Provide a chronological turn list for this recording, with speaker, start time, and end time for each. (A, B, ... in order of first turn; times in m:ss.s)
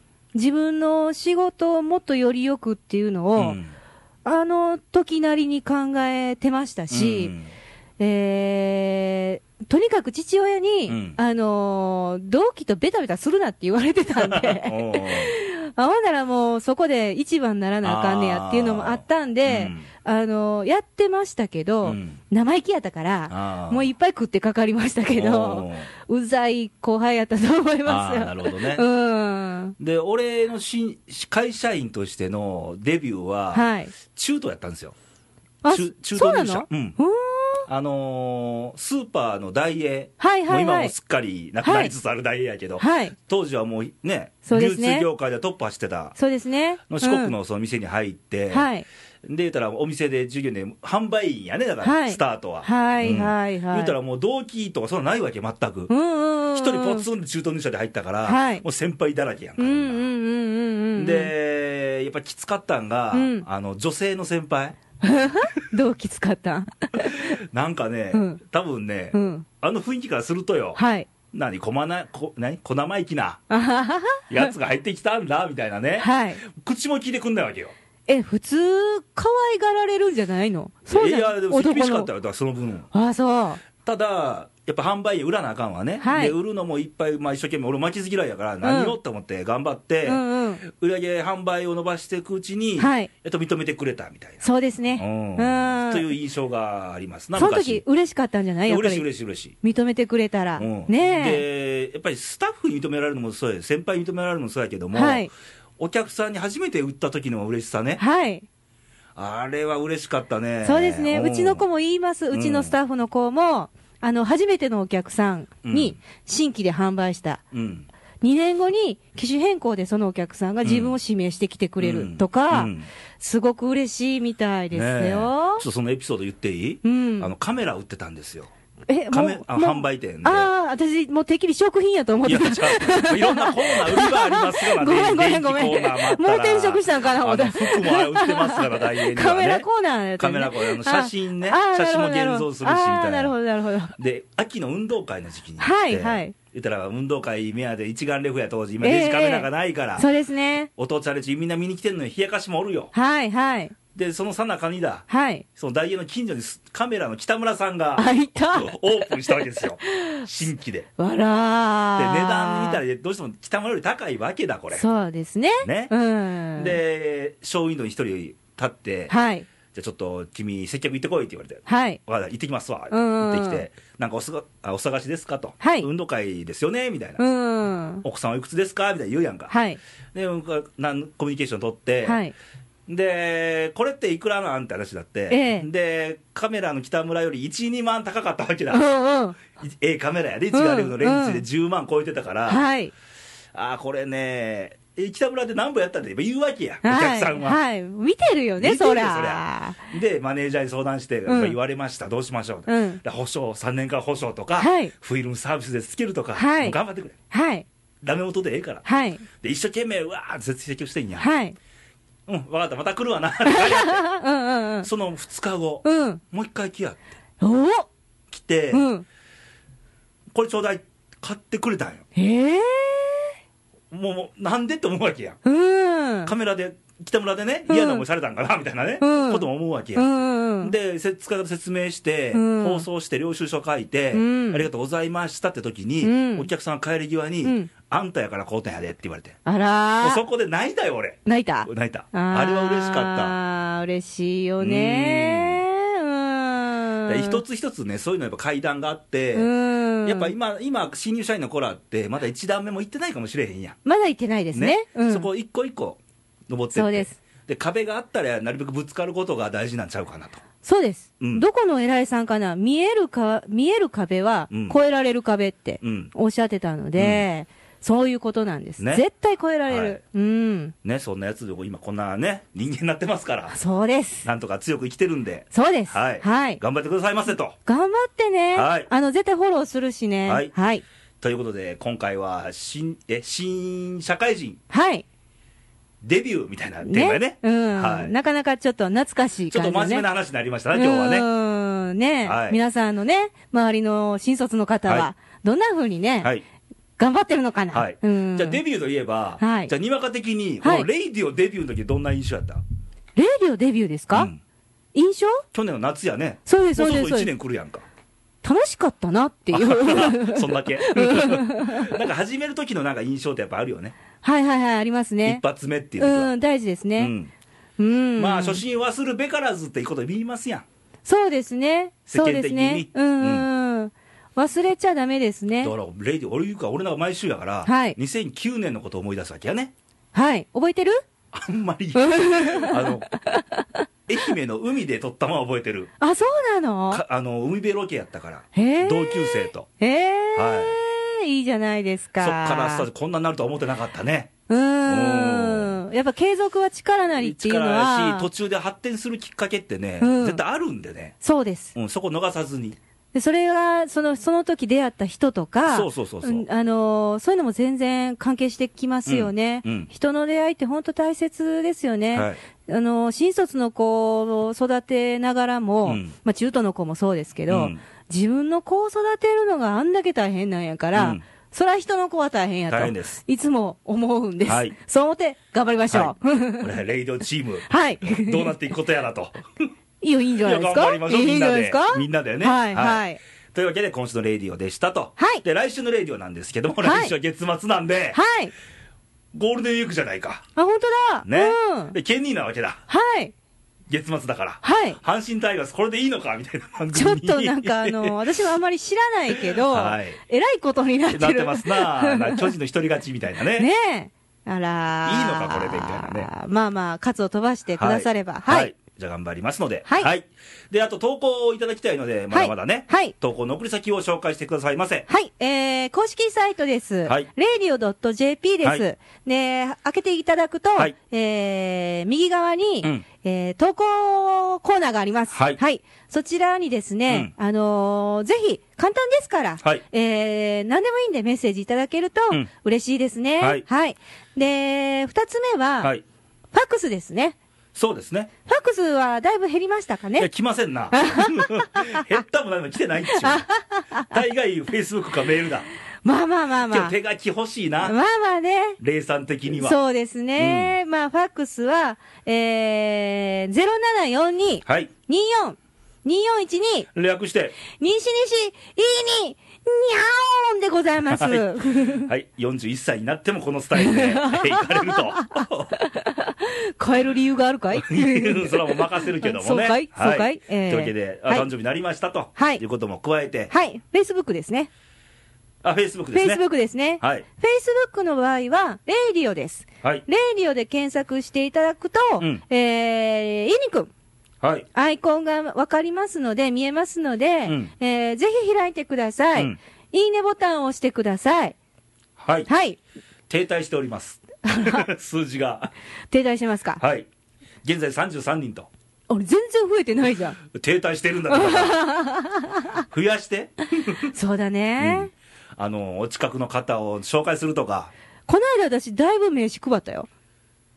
0:00.3-0:03.6 A
0:03.4-0:03.7 B
0:04.2-0:07.3 A
0:06.9-0:07.5 B
0:08.0-0:29.8 A
0:10.9-0:11.2 B
0:14.2-0:15.3 B
0:17.8-0:19.9 B
0:21.8-0:22.2 B
0:23.3-0:23.9 B
0:25.2-0:25.9 B
0:27.9-0:28.8 B
0:29.8-0:35.0 B
0:33.5-0:33.9 A
0:35.6-0:37.7 A
0:35.7-0:37.0 B
0:37.7-0:46.2 B
0:40.2-0:40.9 A
0:41.6-0:41.9 A
0:42.8-0:43.2 A
0:44.5-0:45.1 A
0:46.2-0:47.3 A
0:46.9-0:48.7 B
0:48.5-0:48.9 A
0:49.2-0:55.9 B
0:51.8-0:54.0 A
0:55.9-0:57.1 A
0:56.5-1:00.1 B
0:58.3-0:58.6 A
0:59.6-1:01.3 A
1:01.0-1:04.8 B
1:03.1-1:03.4 A
1:05.0-1:07.4 A
1:07.0-1:10.8 B
1:08.1-1:08.4 A
1:09.1-1:09.5 A
1:10.8-1:11.1 A
1:11.3-1:13.4 B
1:13.5-1:14.5 A
1:14.3-1:17.7 B
1:16.0-1:16.4 A
1:18.1-1:22.1 A
1:20.9-1:22.9 B
1:22.9-1:23.6 A
1:23.8-1:34.4 B
1:26.0-1:26.4 A
1:28.6-1:29.0 A
1:30.0-1:30.6 A
1:32.8-1:33.1 A
1:34.4-1:36.1 A
1:35.0-1:37.8 B
1:37.4-1:39.0 A
1:38.7-1:39.6 B
1:39.6-1:41.4 A
1:40.6-1:45.3 B
1:44.9-1:45.3 A
1:45.8-1:48.0 B
1:48.0-1:48.5 A
1:49.2-1:51.6 B
1:50.6-1:57.4 A
1:52.3-1:52.8 B
1:55.6-1:56.0 B
1:57.5-1:57.9 B
1:58.2-2:05.6 A
2:00.6-2:01.0 B
2:01.8-2:02.9 B
2:04.7-2:08.5 B
2:06.8-2:07.3 A
2:08.9-2:24.0 A
2:09.1-2:10.5 B
2:12.2-2:19.7 B
2:20.2-2:23.4 B
2:24.0-2:30.1 B
2:25.6-2:26.4 A
2:28.8-2:30.7 A
2:30.8-2:32.9 B
2:32.9-2:33.8 A
2:33.9-2:40.9 B
2:35.1-2:35.4 A
2:38.0-2:40.3 A
2:41.0-2:42.8 A
2:42.0-2:44.9 B
2:44.7-2:46.8 A
2:45.6-2:45.9 B
2:46.6-2:49.1 B
2:49.1-2:49.5 A
2:49.7-2:57.2 B
2:51.7-2:52.0 A
2:52.9-2:53.7 A
2:55.6-2:55.9 A
2:57.2-2:58.0 A
2:58.0-2:59.5 B
2:59.5-2:59.8 A
3:00.1-3:02.2 B
3:02.0-3:02.3 A
3:02.9-3:08.8 B
3:05.3-3:05.7 A
3:08.7-3:09.4 A
3:09.6-3:12.6 B
3:10.5-3:11.4 A
3:12.5-3:12.9 A
3:13.5-3:17.6 B
3:16.8-3:19.8 A
3:18.6-3:27.2 B
3:21.3-3:21.6 A
3:22.7-3:23.0 A
3:24.6-3:24.9 A
3:26.4-3:26.8 A
3:27.3-3:27.7 A
3:28.0-3:31.3 B
3:28.8-3:29.2 A
3:31.2-3:31.6 A
3:32.3-3:34.0 B
3:33.4-3:34.9 A
3:34.8-3:37.0 B
3:35.8-3:36.2 A
3:37.4-3:37.9 A
3:38.3-3:38.9 B
3:38.7-3:39.0 A
3:40.3-3:42.0 B
3:42.2-3:43.3 A
3:43.9-3:45.4 B
3:45.4-3:46.3 A
3:46.3-3:50.1 B
3:47.7-3:48.0 A
3:49.0-3:50.8 A
3:50.6-3:59.4 B
3:52.3-3:52.8 A
3:54.1-3:54.7 A
3:56.0-3:56.5 A
3:57.4-3:57.7 A
3:59.4-4:00.2 A
4:00.0-4:03.4 B
4:01.3-4:07.4 A
4:04.6-4:05.6 B
4:07.1-4:09.5 B
4:09.3-4:10.3 A
4:10.0-4:13.8 B
4:13.8-4:15.3 A
4:14.5-4:20.4 B
4:16.7-4:17.2 A
4:20.6-4:30.7 A
4:21.2-4:21.4 B
4:24.5-4:24.8 B
4:25.8-4:26.1 B
4:27.0-4:27.3 B
4:28.8-4:29.0 B
4:29.7-4:30.0 B
4:30.8-4:33.6 B
4:33.5-4:34.3 A
4:34.2-4:37.6 B
4:35.5-4:36.6 A
4:37.7-4:40.8 A
4:38.5-4:38.9 B
4:40.3-4:40.5 B
4:41.2-4:44.6 B
4:44.7-4:45.0 A
4:46.0-4:48.1 B
4:46.8-4:50.1 A
4:49.5-4:51.3 B
4:50.7-4:56.3 A
4:52.2-4:52.6 B
4:57.0-4:58.6 A
4:57.7-5:02.6 B
4:59.4-4:59.7 A
5:00.6-5:00.9 A
5:03.2-5:04.3 A
5:04.1-5:04.4 B
5:04.9-5:05.4 A
5:05.5-5:07.8 B
5:06.5-5:07.3 A
5:08.4-5:11.9 A
5:09.5-5:14.0 B
5:14.2-5:15.4 A
5:15.3-5:16.3 B
5:16.0-5:17.1 A
5:17.0-5:17.3 B
5:17.8-5:18.6 A
5:18.2-5:20.7 B
5:21.1-5:25.7 A
5:22.1-5:23.5 B
5:25.6-5:29.7 B
5:27.6-5:28.0 A
5:30.1-5:31.0 A
5:31.3-5:33.1 B
5:32.0-5:33.8 A
5:34.1-5:35.9 B
5:36.0-5:37.0 A
5:36.9-5:39.7 B
5:38.6-5:42.9 A
5:40.4-5:40.8 B
5:42.2-5:44.3 B
5:44.5-5:48.3 A
5:44.9-5:45.8 B
5:47.2-5:51.2 B
5:50.0-5:50.4 A
5:51.2-5:51.8 A
5:51.8-5:52.8 B
5:53.1-6:16.7 A
5:55.7-5:56.5 B
5:59.1-5:59.9 B
6:05.8-6:06.1 B
6:07.5-6:07.8 B
6:11.0-6:11.2 B
6:12.7-6:13.2 B
6:14.5-6:14.8 B
6:15.9-6:19.7 B
6:17.7-6:18.5 A
6:20.0-6:23.2 A
6:20.4-6:28.2 B
6:25.2-6:25.4 A
6:26.8-6:27.1 A
6:28.1-6:28.5 A
6:29.3-6:30.4 B
6:30.6-6:32.0 A
6:31.3-6:32.8 B
6:32.9-6:33.3 A
6:33.9-6:38.2 B
6:34.6-6:35.0 A
6:36.9-6:42.5 A
6:39.3-6:40.2 B
6:41.1-6:43.7 B
6:43.6-6:48.7 A
6:45.1-6:46.3 B
6:47.8-6:55.1 B
6:52.3-6:53.1 A
6:55.1-7:15.9 A
7:05.3-7:05.6 B
7:16.5-7:17.4 A
7:17.8-7:18.3 B
7:18.5-7:20.3 A
7:20.2-7:23.5 B
7:20.9-7:22.2 A
7:23.1-7:24.2 A
7:24.1-7:25.7 B
7:26.0-7:27.0 A
7:26.7-7:28.0 B
7:27.8-7:28.8 A
7:28.8-7:29.8 B
7:29.5-7:36.9 A
7:30.4-7:30.7 B
7:34.6-7:34.9 B
7:36.9-7:37.6 B
7:37.7-7:42.1 A
7:41.1-7:45.7 B
7:43.8-7:51.5 A
7:47.7-7:53.5 B
7:52.4-7:52.6 A
7:53.5-7:54.7 A
7:55.6-7:56.4 B
7:56.1-8:03.9 A
8:04.4-8:04.7 B
8:04.7-8:11.6 A
8:07.5-8:07.7 B
8:12.2-8:12.5 B
8:12.5-8:12.8 A
8:13.3-8:15.7 B
8:14.4-8:14.9 A
8:16.1-8:16.8 A
8:16.8-8:17.1 B
8:17.6-8:18.7 B
8:19.1-8:20.4 A
8:20.5-8:21.9 B
8:21.3-8:22.8 A
8:22.9-8:24.1 B
8:24.0-8:25.1 A
8:24.8-8:27.9 B
8:28.3-8:30.1 A